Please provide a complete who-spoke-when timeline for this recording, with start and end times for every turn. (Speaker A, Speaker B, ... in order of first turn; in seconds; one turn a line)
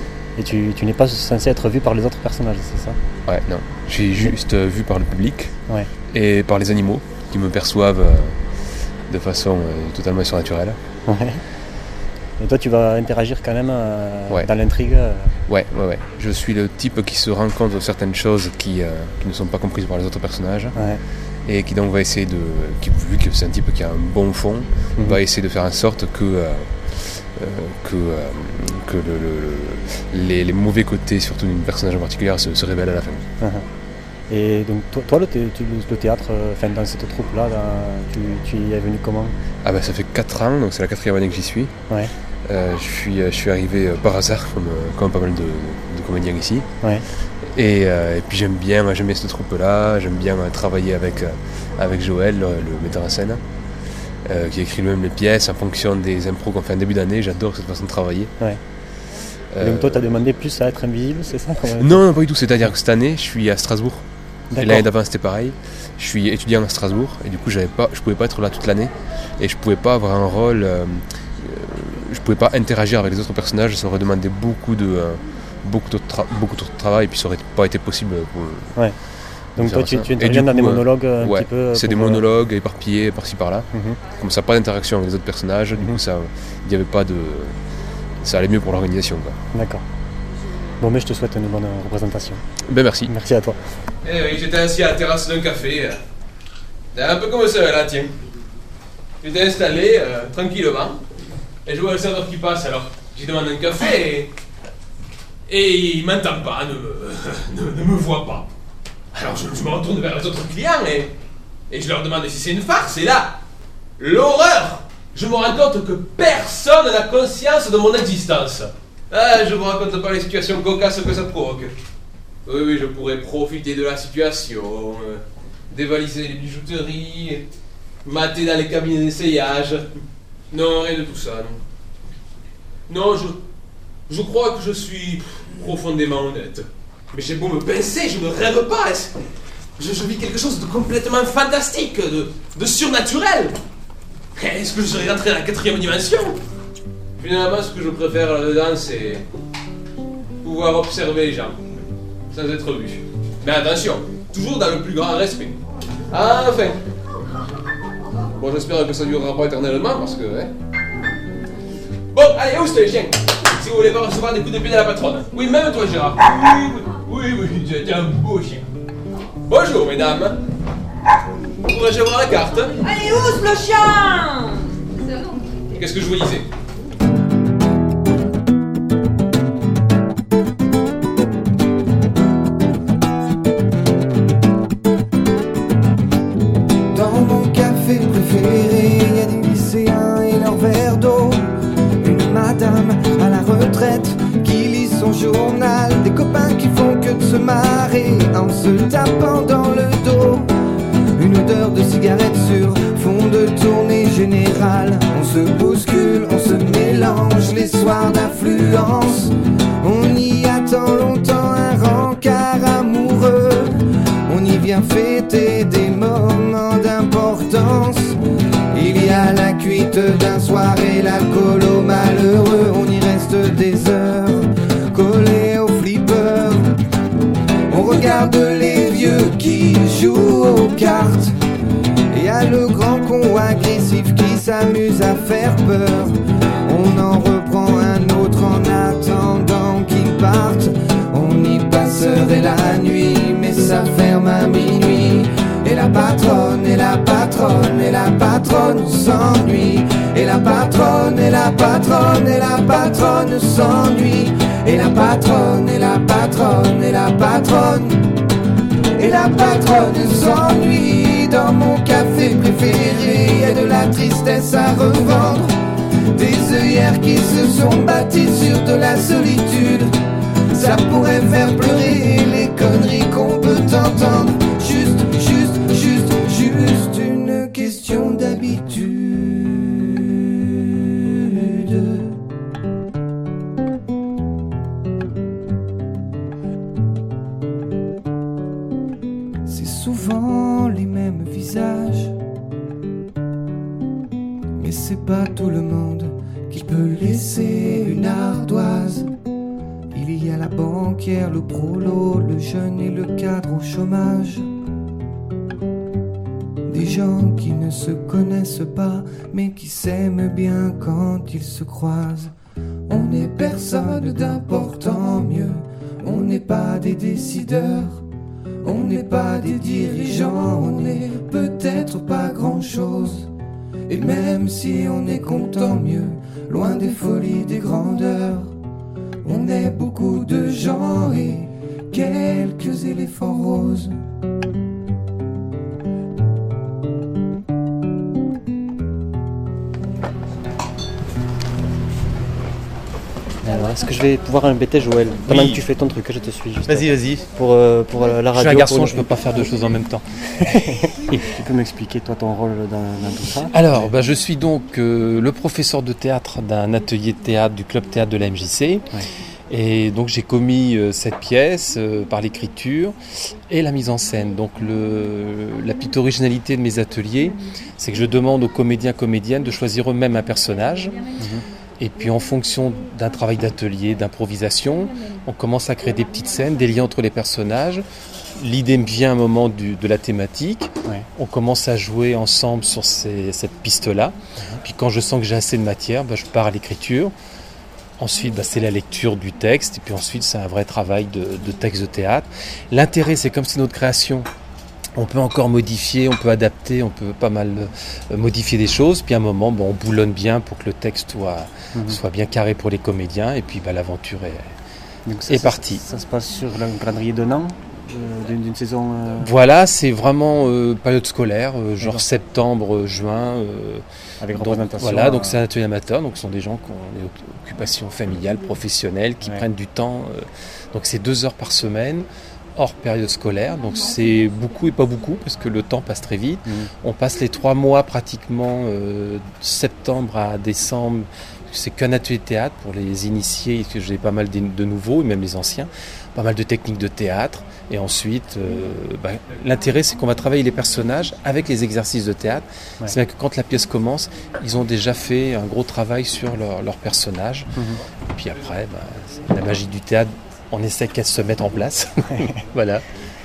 Speaker A: 0.3-3.0
Speaker B: 3.2-5.5
Speaker B: 6.1-8.4
Speaker B: 9.1-10.8
Speaker A: 11.1-11.4
Speaker A: 12.4-15.3
Speaker B: 15.5-20.8
Speaker A: 20.7-21.0
Speaker B: 21.4-33.2
Speaker A: 33.4-33.6
Speaker A: 34.3-39.4
Speaker B: 39.6-41.8
Speaker B: 42.5-46.7
Speaker B: 47.4-53.4
Speaker B: 54.2-58.3
Speaker B: 59.5-60.1
Speaker A: 59.6-62.0
Speaker B: 61.8-64.0
Speaker A: 64.5-64.9
Speaker B: 64.5-78.7
Speaker A: 79.5-82.2
Speaker B: 79.5-87.5
Speaker A: 83.7-84.0
Speaker B: 88.2-89.4
Speaker A: 89.5-89.8
Speaker A: 90.8-92.4
Speaker B: 92.7-93.1
Speaker A: 93.0-93.6
Speaker C: 94.0-96.0
Speaker C: 96.9-98.1
Speaker C: 99.2-101.0
Speaker C: 101.7-104.3
Speaker C: 105.5-108.5
Speaker C: 109.1-111.1
Speaker C: 111.7-113.3
Speaker C: 114.0-121.7
Speaker C: 122.5-127.4
Speaker C: 128.0-129.9
Speaker C: 130.5-131.6
Speaker C: 132.9-133.4
Speaker C: 134.1-139.2
Speaker C: 139.8-143.5
Speaker C: 144.3-146.4
Speaker C: 147.2-149.2
Speaker C: 150.4-151.6
Speaker C: 152.3-155.6
Speaker C: 156.1-156.8
Speaker C: 158.3-160.5
Speaker C: 162.1-168.6
Speaker C: 169.5-170.4
Speaker C: 171.7-172.8
Speaker D: 172.8-175.4
Speaker C: 175.7-176.5
Speaker E: 186.9-191.4
Speaker E: 192.0-200.5
Speaker E: 201.2-213.8
Speaker E: 214.3-218.2
Speaker E: 218.7-226.7
Speaker E: 227.7-231.3
Speaker E: 232.1-258.1
Speaker E: 258.9-265.5
Speaker E: 266.1-269.9
Speaker E: 270.5-282.2
Speaker E: 289.4-292.1
Speaker E: 294.5-299.1
Speaker E: 299.9-304.5
Speaker E: 306.6-312.3
Speaker E: 312.9-318.0
Speaker E: 318.6-323.3
Speaker E: 323.9-328.5
Speaker E: 329.2-334.0
Speaker A: 343.4-349.4
Speaker F: 345.3-345.6
Speaker F: 346.7-347.2
Speaker F: 348.3-350.5
Speaker A: 350.4-353.9
Speaker F: 353.5-358.8
Speaker F: 359.5-362.9
Speaker F: 363.5-370.9
Speaker F: 371.8-377.8
Speaker F: 378.4-387.1
Speaker F: 388.0-394.3
Speaker F: 394.9-404.5
Speaker A: 401.7-402.0
Speaker A: 405.1-409.3
Speaker F: 405.3-405.8
Speaker F: 409.2-413.8
Speaker A: 414.2-415.4
Speaker F: 414.4-447.5
Speaker F: 448.1-451.9
Speaker F: 452.5-452.8